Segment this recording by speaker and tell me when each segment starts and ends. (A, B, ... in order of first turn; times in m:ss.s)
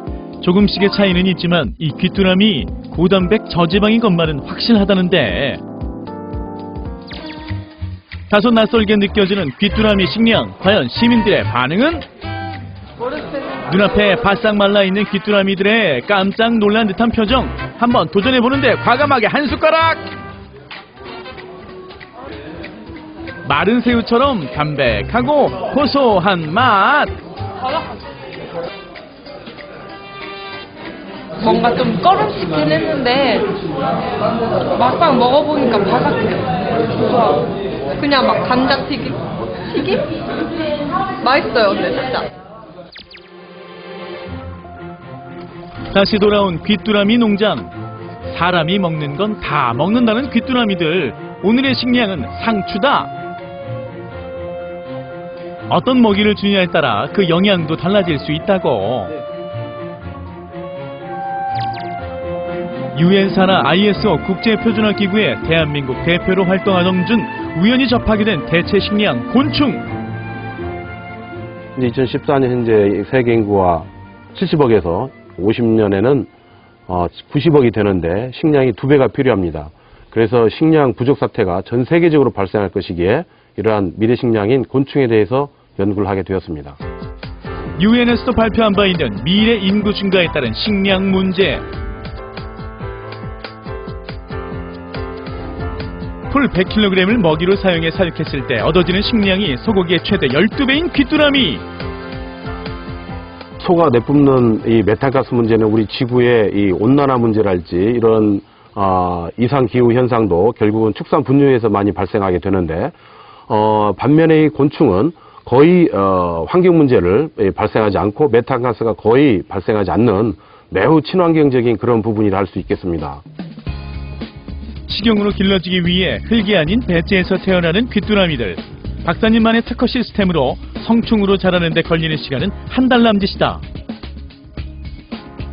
0:00.4-0:05.6 A
0:08.3-0:12.0 A
0:13.7-0:20.0 A
0:23.4-0:27.1 A
0:31.4-0:33.5 B
0:34.8-0:36.5 B
0:37.0-0:37.5 B
0:38.0-0:40.1 B
0:41.2-0:42.3 B
0:45.9-0:47.7 A
0:48.3-0:53.1 A
0:55.7-0:59.1 A
1:02.9-1:09.9 A
1:11.8-1:16.3 C
1:16.9-1:26.8 C
1:27.8-1:31.6 A
1:36.3-1:41.6 A
1:43.6-1:53.0 C
1:53.5-2:03.2 C
2:04.9-2:13.6 A